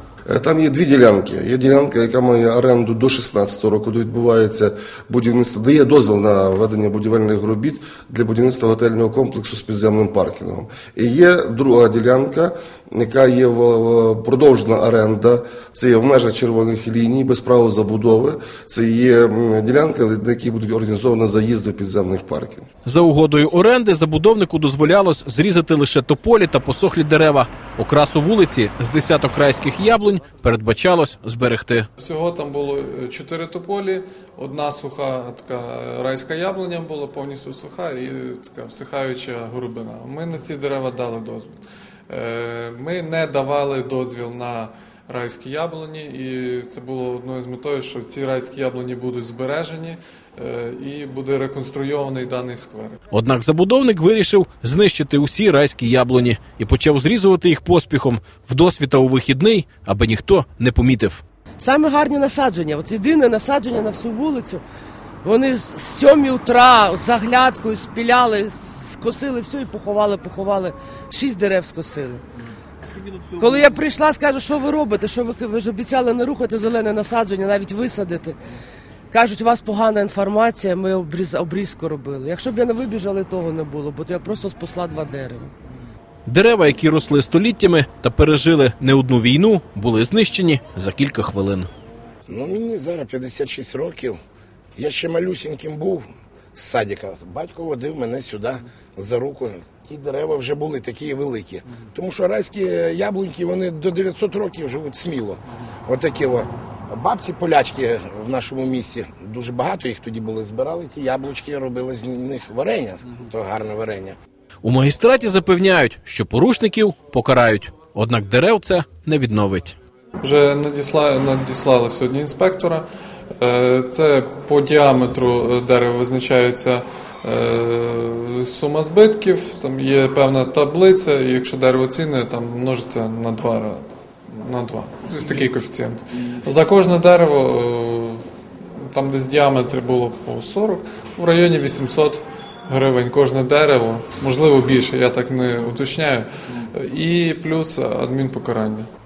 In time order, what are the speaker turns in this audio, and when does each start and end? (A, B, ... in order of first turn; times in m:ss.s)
0:00.3-0:22.6 A
0:22.8-0:31.9 B
0:32.0-0:41.6 C
0:42.1-0:53.0 C
0:53.1-1:01.2 B
1:01.6-1:04.6 D
1:05.2-1:12.2 D
1:13.4-1:18.4 D
1:19.1-1:25.5 D
1:26.2-1:31.7 B
1:32.3-1:34.2 E
1:34.8-1:54.2 E
1:54.6-1:59.8 B
2:00.2-2:02.8 C
2:03.4-2:28.9 C